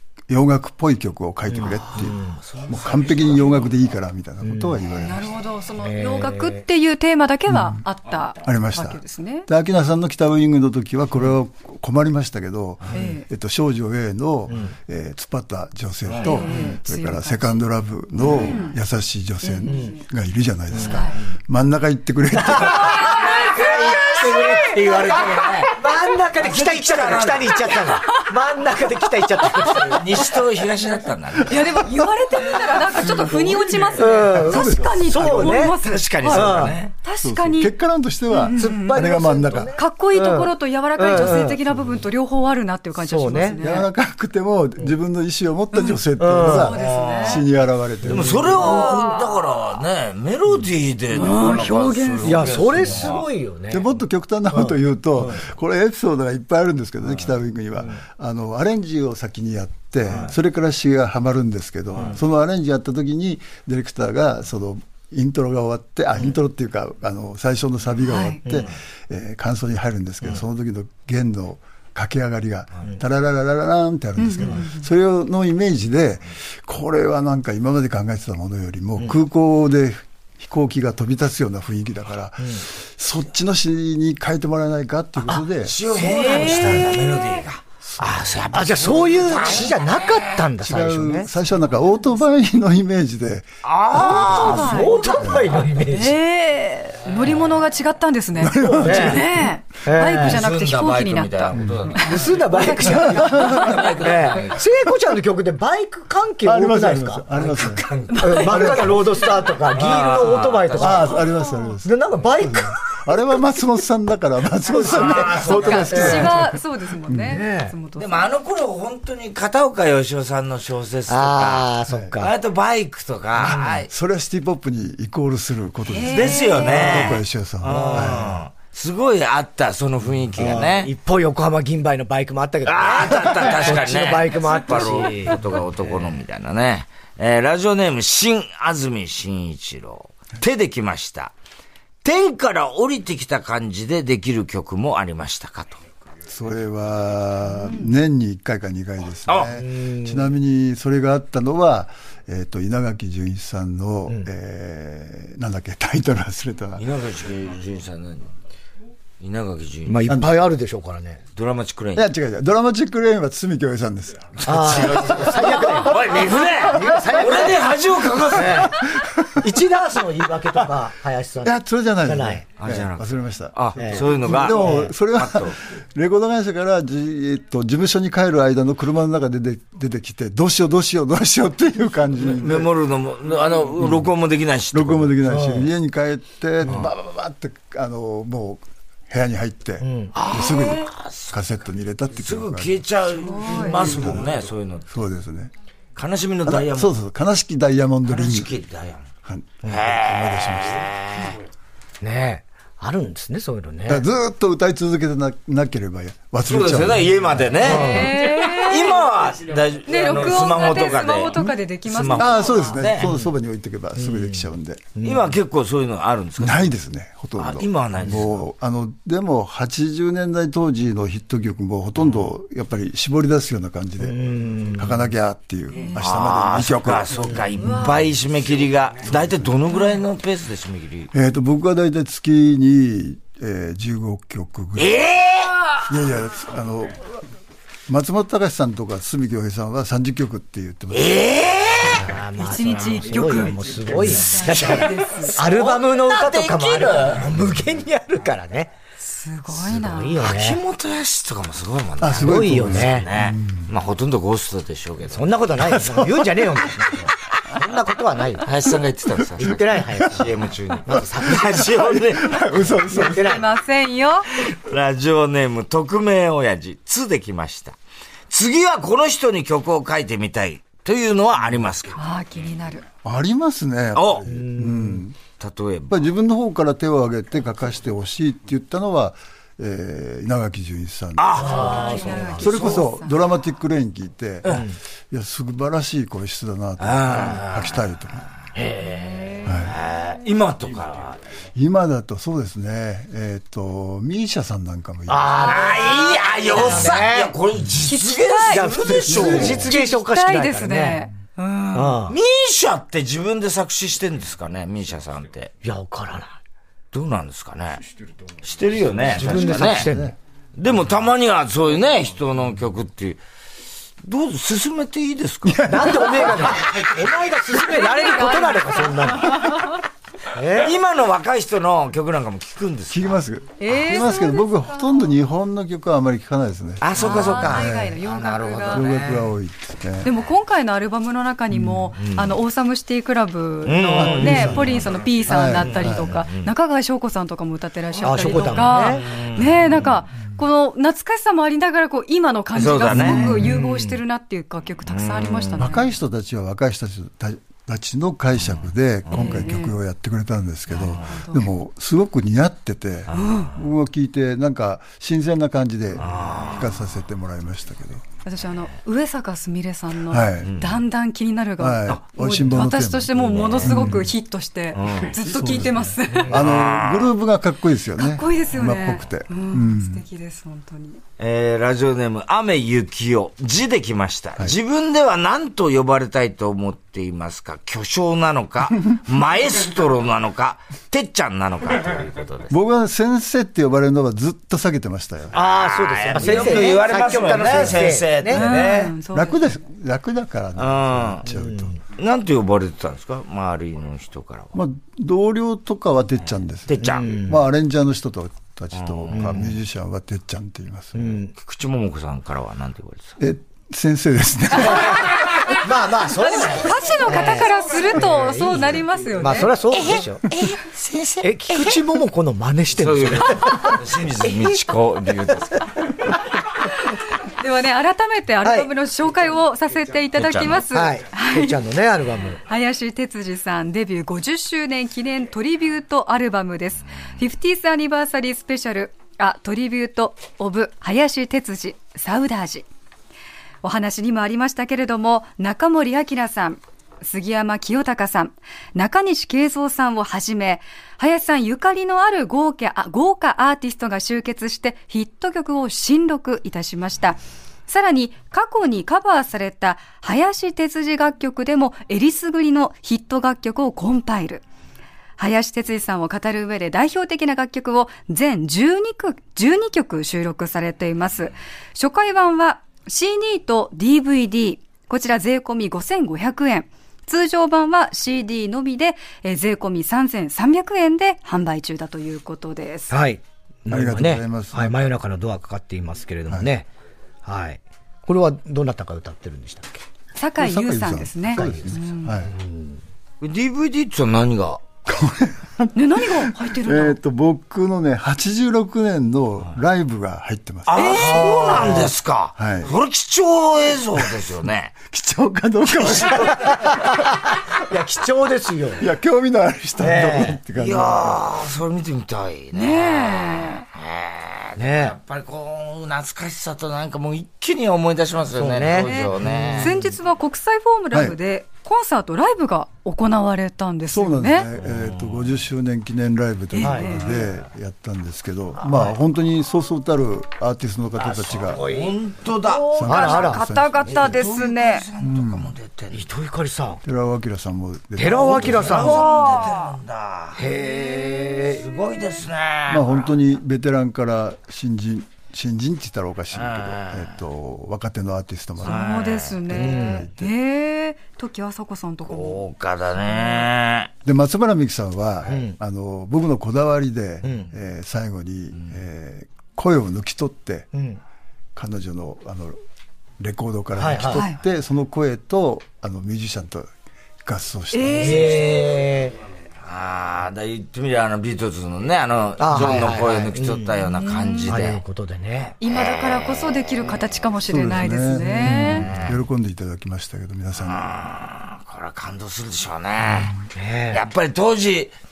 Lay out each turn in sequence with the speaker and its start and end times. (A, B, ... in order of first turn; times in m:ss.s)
0:00.3-0:05.3 A
0:01.5-0:02.4 B
0:01.7-0:03.8 C
0:04.4-0:04.8 B
0:05.0-0:09.5 D
0:05.8-0:06.6 B
0:07.5-0:07.8 A
0:08.4-0:23.2 A
0:12.9-0:13.2 D
0:14.5-0:14.7 B
0:16.1-0:16.6 C
0:16.2-0:17.6 D
0:18.2-0:18.8 D
0:18.2-0:18.5 C
0:19.4-0:19.9 D
0:19.6-0:20.0 B
0:20.8-0:21.2 D
0:22.4-0:30.3 B
0:22.5-0:25.8 C
0:22.9-0:25.1 D
0:26.4-0:28.0 C
0:29.6-0:29.9 D
0:29.7-0:31.8 C
0:31.4-0:37.7 D
0:32.7-0:35.7 A
0:33.9-0:36.8 B
0:35.7-0:36.9 C
0:37.2-0:39.7 A
0:38.3-0:39.2 D
0:38.6-0:41.6 B
0:39.7-0:43.9 D
0:43.0-0:43.6 B
0:43.6-0:48.9 A
0:45.7-0:47.5 D
0:46.2-0:46.8 B
0:46.8-0:47.3 C
0:48.0-0:48.5 B
0:48.0-0:53.2 C
0:48.6-0:49.4 D
0:51.1-0:52.8 D
0:52.2-0:53.8 B
0:53.7-1:25.8 A
0:54.5-0:55.4 B
1:08.0-1:08.4 D
1:14.2-1:14.9 D
1:25.4-1:30.4 C
1:26.0-1:27.4 D
1:26.1-1:26.9 B
1:27.8-1:28.8 A
1:28.5-1:31.3 B
1:30.6-1:33.4 A
1:33.6-1:34.9 C
1:33.9-1:36.2 B
1:33.9-1:43.9 D
1:38.4-1:39.5 A
1:38.6-1:40.4 B
1:40.0-1:44.6 C
1:41.5-1:42.0 A
1:42.0-1:51.2 B
1:42.8-1:43.8 A
1:46.4-1:47.8 A
1:47.6-1:48.1 C
1:48.1-1:49.1 D
1:48.4-1:48.9 A
1:49.7-1:51.3 C
1:50.8-1:57.4 A
1:51.2-1:51.8 D
1:51.8-1:52.8 B
1:54.7-1:56.3 B
1:54.7-1:56.4 C
1:55.5-1:58.3 D
1:57.2-1:57.7 B
1:58.0-2:01.7 C
2:01.1-2:02.3 B
2:01.9-2:02.2 A
2:02.2-2:03.9 C
2:03.4-2:08.4 A
2:03.4-2:03.8 B
2:05.9-2:07.0 D
2:06.1-2:10.9 C
2:07.6-2:08.4 B
2:10.4-2:15.4 B
2:12.6-2:21.3 C
2:14.5-2:15.1 D
2:22.0-2:25.8 C
2:26.3-2:36.8 A
2:27.6-2:27.9 D
2:29.2-2:29.6 C
2:29.6-2:30.3 B
2:36.8-2:38.3 C
2:39.2-2:40.0 C
2:39.8-2:41.2 B
2:41.3-2:42.1 C
2:41.9-2:45.6 A
2:44.4-2:48.7 C
2:44.4-2:47.7 B
2:48.3-2:52.4 B
2:48.7-2:49.6 A
2:50.6-2:50.8 A
2:51.4-3:02.7 A
2:52.6-2:55.6 C
2:53.8-2:54.9 B
3:02.3-3:05.2 C
3:03.8-3:04.1 A
3:04.7-3:12.8 A
3:05.2-3:05.7 B
3:09.8-3:10.1 B
3:10.1-3:11.4 C
3:12.2-3:14.8 C
3:13.2-3:13.9 D
3:13.5-3:14.3 A
3:14.9-3:15.5 A
3:16.0-3:16.9 C
3:16.4-3:18.5 A
3:18.0-3:19.0 C
3:19.2-3:20.9 A
3:19.6-3:21.4 C
3:22.0-3:24.0 B
3:23.9-3:27.6 A
3:26.5-3:33.1 C
3:27.6-3:28.1 B
3:27.6-3:29.1 D
3:29.8-3:32.8 D
3:32.1-3:34.9 A
3:33.0-3:33.3 B
3:34.0-3:35.3 B
3:35.0-3:36.7 C
3:36.4-3:47.4 A
3:37.4-3:38.3 C
3:44.0-3:45.0 B
3:45.9-3:51.1 C
3:47.6-3:48.0 D
3:51.1-3:55.0 A
3:54.8-3:55.9 C
3:55.9-3:57.2 A
3:57.9-4:01.9 A
4:00.9-4:02.1 C
4:01.8-4:08.7 B
4:02.4-4:05.3 D
4:04.4-4:07.4 C
4:09.0-4:10.2 D
4:09.6-4:10.6 B
4:10.2-4:15.4 C
4:12.0-4:13.7 A
4:12.1-4:13.1 B
4:15.1-4:18.5 B
4:15.6-4:17.1 A
4:18.4-4:22.8 C
4:19.3-4:20.0 A
4:19.4-4:20.3 B
4:20.9-4:21.6 B
4:20.9-4:23.4 A
4:22.9-4:24.3 D
4:22.9-4:23.4 B
4:24.4-4:27.8 C
4:28.3-4:32.0 C
4:32.0-4:32.8 D
4:33.0-4:35.2 A
4:33.9-4:34.2 C
4:34.3-4:35.0 B
4:35.4-4:36.0 C
4:35.9-4:41.4 A
4:41.2-4:42.9 C
4:41.4-4:42.5 B
4:41.4-4:43.1 D
4:42.4-4:48.3 A
4:44.5-4:44.8 B
4:46.8-4:47.8 C
4:48.5-4:51.2 C
4:48.9-4:49.6 D
4:49.4-4:49.7 A
4:51.5-4:55.6 A
4:55.1-4:57.3 B
4:55.3-4:59.6 C
4:57.8-5:01.9 D
4:58.5-5:01.0 B
4:59.1-4:59.7 A
5:01.7-5:02.2 B
5:02.0-5:05.5 C
5:05.6-5:06.4 B
5:06.9-5:07.8 C
5:08.4-5:09.9 C
5:09.1-5:10.1 A
5:09.1-5:10.1 B
5:10.6-5:13.2 C
5:14.0-5:15.6 C
5:15.4-5:16.8 A
5:15.7-5:19.6 B
5:17.5-5:19.8 D
5:20.3-5:20.7 B
5:20.5-5:23.2 C
5:22.9-5:28.0 A
5:23.6-5:25.1 D
5:26.8-5:29.3 C
5:26.9-5:29.0 D
5:28.7-5:30.1 A
5:30.0-5:45.8 D
5:31.5-5:31.9 A
5:32.0-5:32.3 C
5:33.6-5:34.9 C
5:34.0-5:36.2 A
5:35.4-5:36.5 C
5:38.0-5:39.1 B
5:38.2-5:39.8 C
5:42.5-5:43.6 C
5:42.9-5:43.6 A
5:43.3-5:44.0 B
5:44.8-5:45.7 C
5:45.6-5:58.0 A
5:49.1-5:49.4 C
5:49.1-5:49.7 D
5:50.7-5:51.5 D
5:53.1-5:53.5 C
5:53.1-5:53.6 D
5:56.0-5:56.8 C
5:58.2-6:06.4 D
6:00.0-6:00.6 A
6:00.4-6:00.8 C
6:01.6-6:04.1 A
6:03.1-6:04.1 C
6:04.7-6:05.2 C
6:05.2-6:10.0 A
6:06.2-6:07.1 C
6:08.0-6:11.0 D
6:11.2-6:22.5 C
6:22.5-6:25.4 A
6:25.3-6:28.4 B
6:25.3-6:28.9 C
6:28.3-6:29.4 D
6:29.1-6:31.7 A
6:30.6-6:31.3 C
6:31.3-6:31.8 B
6:31.9-6:34.5 C
6:34.5-6:41.2 A
6:36.7-6:37.2 C
6:36.8-6:37.4 B
6:38.7-6:39.6 C
6:39.1-6:39.5 B
6:40.9-6:41.3 B
6:41.4-6:43.2 C
6:43.2-6:45.1 A
6:45.5-6:50.2 B
6:46.0-6:49.5 D
6:49.8-6:51.8 C
6:51.2-6:54.4 B
6:52.8-6:55.7 C
6:57.4-7:01.6 D
6:58.4-6:58.7 B
7:00.1-7:00.6 C
7:00.7-7:02.4 B
7:02.4-7:12.6 D
7:13.6-7:34.4 D
7:35.2-7:53.0 D
7:52.9-7:56.7 B
7:53.7-7:54.8 A
7:57.2-7:59.8 B
8:00.2-8:02.3 D
8:00.4-8:02.3 A
8:01.3-8:01.6 B
8:02.3-8:02.8 B
8:03.2-8:04.7 C
8:04.8-8:12.7 A
8:05.7-8:07.0 D
8:10.6-8:14.7 C
8:10.8-8:11.6 D
8:10.9-8:11.9 B
8:14.8-8:17.2 A
8:16.2-8:18.9 B
8:18.8-8:21.3 A
8:19.8-8:20.4 B
8:20.5-8:29.8 C
8:22.5-8:23.6 D
8:24.6-8:25.0 B
8:28.3-8:29.8 B
8:28.8-8:34.5 D
8:30.9-8:31.2 A
8:33.9-8:41.6 A
8:34.6-8:35.4 C
8:36.5-8:37.3 D
8:36.6-8:37.2 B
8:38.6-8:39.0 B
8:41.0-8:42.0 B
8:41.5-8:42.7 C
8:42.4-8:44.8 D
8:42.7-8:44.2 A
8:42.8-8:43.4 B
8:43.8-8:46.0 C
8:45.0-8:45.5 A
8:45.9-8:46.8 B
8:46.8-8:49.1 A
8:48.0-8:49.1 B
8:48.3-8:53.1 C
8:48.8-8:49.7 D
8:50.4-8:51.6 B
8:52.7-8:59.0 A
8:56.3-8:57.2 C
8:58.6-8:59.7 C
8:58.6-9:02.4 D
8:59.5-9:00.3 A
8:59.5-9:00.0 B
9:02.0-9:03.9 C
9:03.0-9:03.5 D
9:04.0-9:10.7 A
9:05.2-9:05.6 B
9:07.2-9:07.5 B
9:10.7-9:11.0 B
9:11.5-9:12.5 A
9:13.2-9:16.7 A
9:13.8-9:14.2 B
9:14.1-9:14.4 D
9:17.2-9:18.4 A
9:17.7-9:18.6 D
9:18.0-9:19.2 B
9:19.6-9:24.8 C
9:22.4-9:23.8 B
9:24.0-9:24.6 D
9:24.5-9:25.6 B
9:25.6-9:28.9 D
9:25.6-9:27.0 C
9:27.5-9:30.9 A
9:28.2-9:29.1 B
9:28.8-9:29.1 C
9:30.6-9:34.9 C
9:33.0-9:33.3 A
9:33.5-9:34.0 B